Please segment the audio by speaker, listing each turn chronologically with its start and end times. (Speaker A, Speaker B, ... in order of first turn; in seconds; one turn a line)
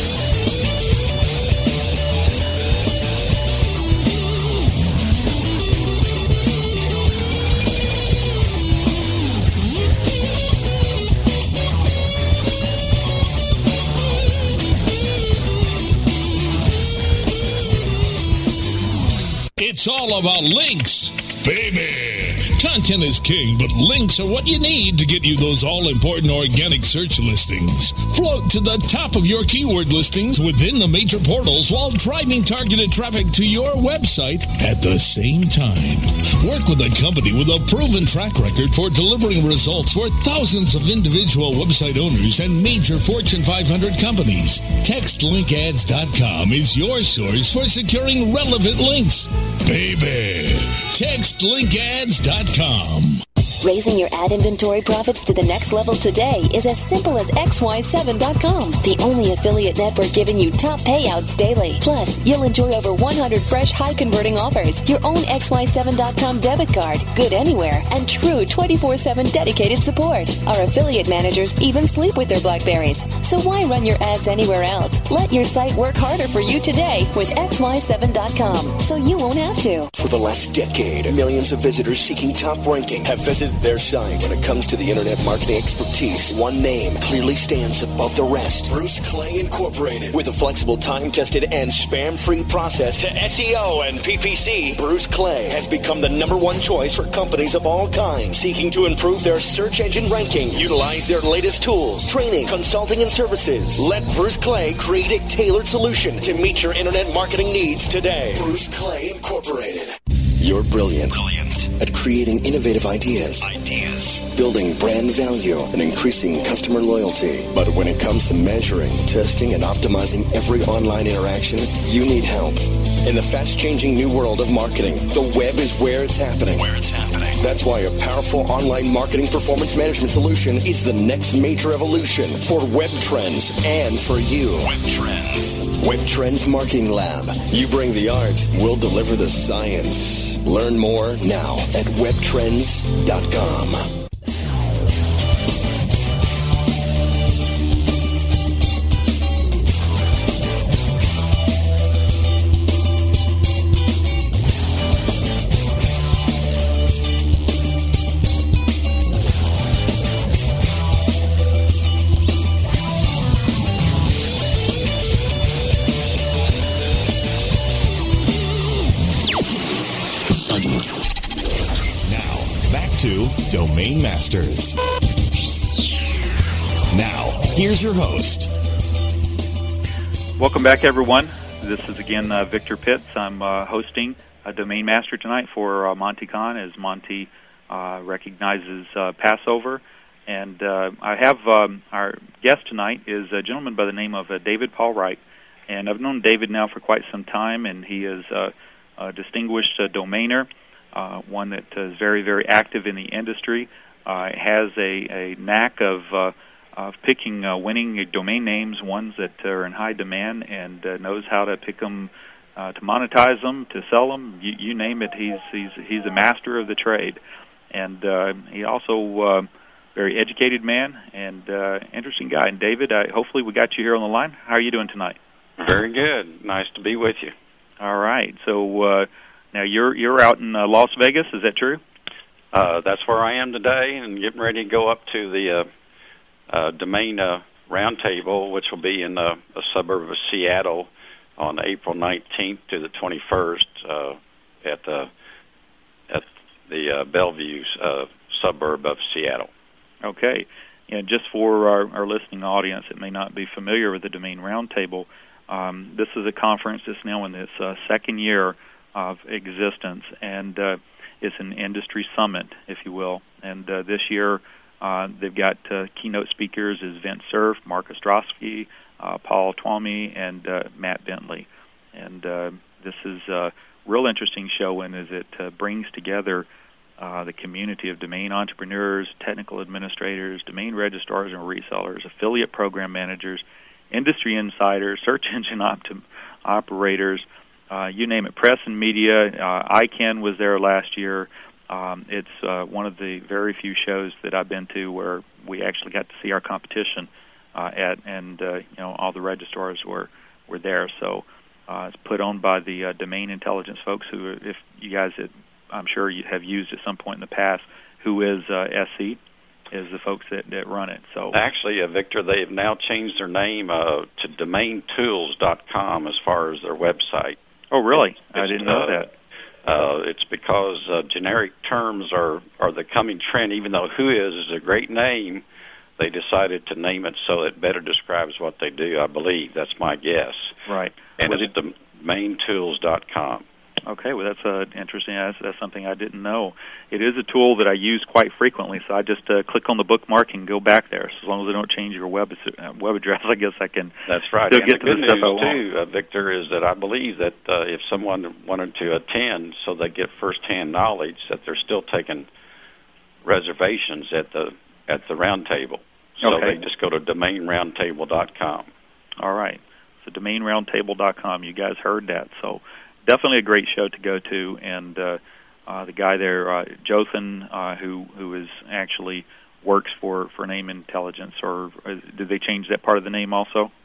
Speaker A: 19.6-53.2
Speaker B: 53.6-79.9
Speaker C: 79.9-143.9
Speaker D: 172.0-174.8
Speaker D: 176.9-178.5
Speaker E: 180.4-217.2
Speaker E: 217.7-225.2
Speaker F: 225.6-227.3
Speaker E: 227.8-231.8
Speaker F: 232.5-235.7
Speaker F: 236.5-245.1
Speaker F: 246.1-249.5
Speaker E: 250.0-276.5
Speaker E: 277.0-309.2
Speaker E: 309.7-311.4
Speaker F: 311.3-317.4
Speaker E: 317.7-319.1
Speaker F: 318.1-319.0
Speaker F: 319.6-325.4
Speaker F: 326.0-330.5
Speaker E: 330.7-331.5
Speaker F: 331.2-333.4
Speaker E: 333.9-343.9
Speaker F: 344.1-352.2
Speaker E: 344.5-345.6
Speaker F: 353.2-358.7
Speaker E: 356.2-356.6
Speaker E: 359.2-373.7